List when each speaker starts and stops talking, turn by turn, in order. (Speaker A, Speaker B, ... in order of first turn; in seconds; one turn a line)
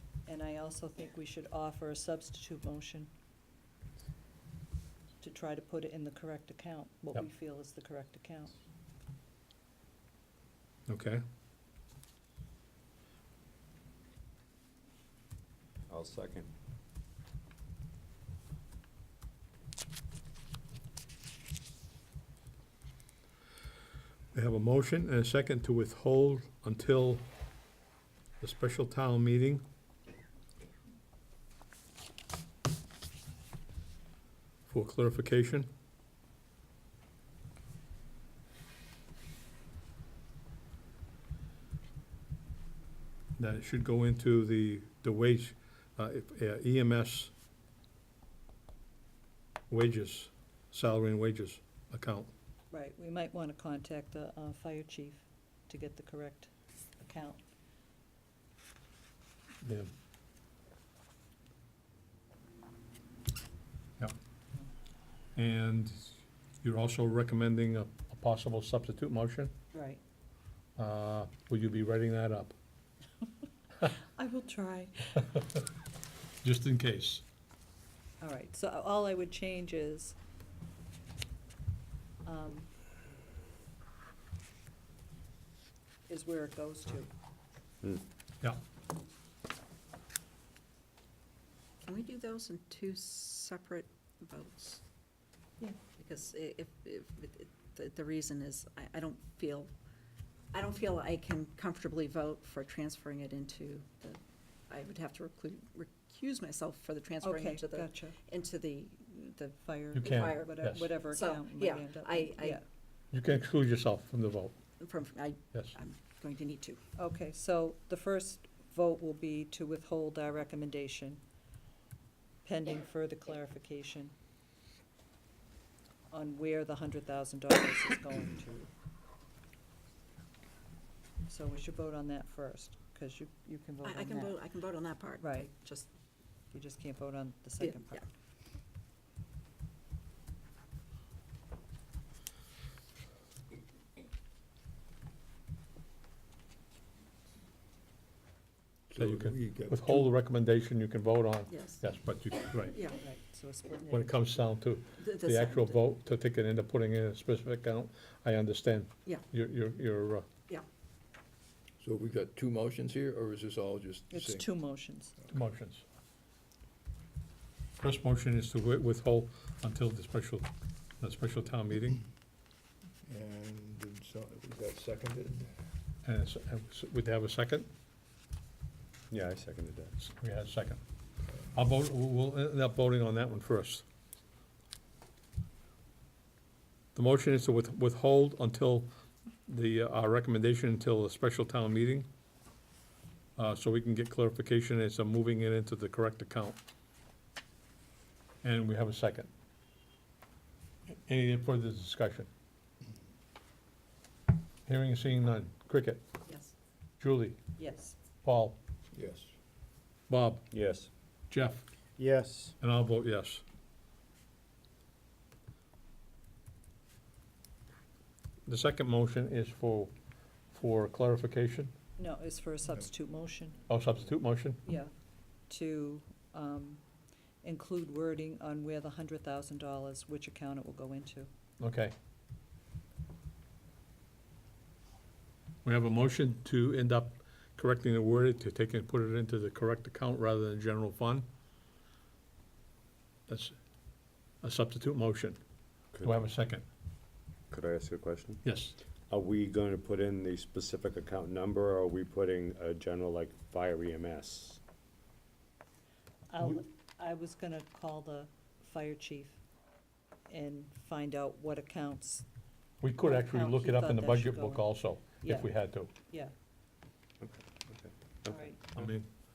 Speaker A: 0.3-3.1
Speaker A: 5.2-8.5
Speaker B: 10.9-11.2
Speaker C: 15.9-16.5
Speaker B: 24.3-27.3
Speaker B: 28.4-29.6
Speaker B: 34.7-35.7
Speaker B: 43.4-47.3
Speaker B: 49.7-52.3
Speaker A: 52.7-57.4
Speaker B: 59.6-59.9
Speaker B: 65.4-69.5
Speaker A: 69.7-70.0
Speaker B: 70.8-72.5
Speaker A: 73.8-75.2
Speaker B: 76.4-77.2
Speaker A: 78.2-80.2
Speaker A: 82.2-82.7
Speaker A: 86.1-87.1
Speaker D: 91.8-94.8
Speaker D: 96.0-99.7
Speaker D: 100.5-112.6
Speaker A: 107.2-108.2
Speaker A: 109.6-112.6
Speaker B: 109.9-110.9
Speaker B: 113.1-114.5
Speaker D: 114.8-116.8
Speaker A: 117.0-121.2
Speaker A: 122.5-124.1
Speaker A: 126.1-128.7
Speaker A: 131.3-134.4
Speaker D: 133.8-135.9
Speaker A: 135.2-135.5
Speaker A: 136.5-138.1
Speaker D: 137.6-138.1
Speaker E: 148.9-150.1
Speaker B: 149.0-152.8
Speaker D: 151.5-151.8
Speaker D: 152.7-153.0
Speaker A: 152.9-154.2
Speaker B: 153.9-160.3
Speaker D: 155.0-155.8
Speaker E: 161.8-164.5
Speaker A: 164.1-165.1
Speaker B: 165.3-165.8
Speaker B: 167.8-170.5
Speaker B: 171.0-172.0
Speaker E: 173.1-175.5
Speaker B: 176.1-177.7
Speaker C: 179.1-179.9
Speaker B: 180.0-180.8
Speaker B: 181.5-183.8
Speaker B: 186.9-188.9
Speaker B: 189.5-192.1
Speaker B: 193.4-196.6
Speaker B: 198.4-199.3
Speaker B: 201.1-202.3
Speaker B: 204.7-206.0
Speaker D: 206.3-206.5
Speaker B: 207.0-207.5
Speaker A: 207.6-207.9
Speaker B: 208.2-208.6
Speaker E: 208.9-209.3
Speaker B: 210.1-210.6
Speaker C: 210.5-210.9
Speaker B: 211.3-211.7
Speaker C: 212.0-212.5
Speaker B: 212.6-213.4
Speaker B: 218.5-219.9
Speaker B: 220.5-221.7
Speaker A: 222.0-223.6
Speaker B: 223.7-224.6
Speaker A: 224.6-224.9
Speaker A: 225.5-226.8
Speaker A: 227.4-231.3
Speaker B: 231.6-231.9
Speaker B: 235.6-241.3
Speaker B: 243.3-243.6
Speaker B: 244.4-245.4
Speaker C: 245.9-246.2
Speaker B: 246.0-246.7
Speaker C: 247.5-248.4
Speaker B: 248.4-248.8
Speaker C: 249.1-254.6
Speaker A: 256.3-259.4
Speaker A: 260.3-262.3
Speaker B: 262.8-265.9
Speaker A: 263.0-266.3
Speaker C: 267.2-268.9
Speaker A: 268.3-268.6
Speaker B: 268.8-269.1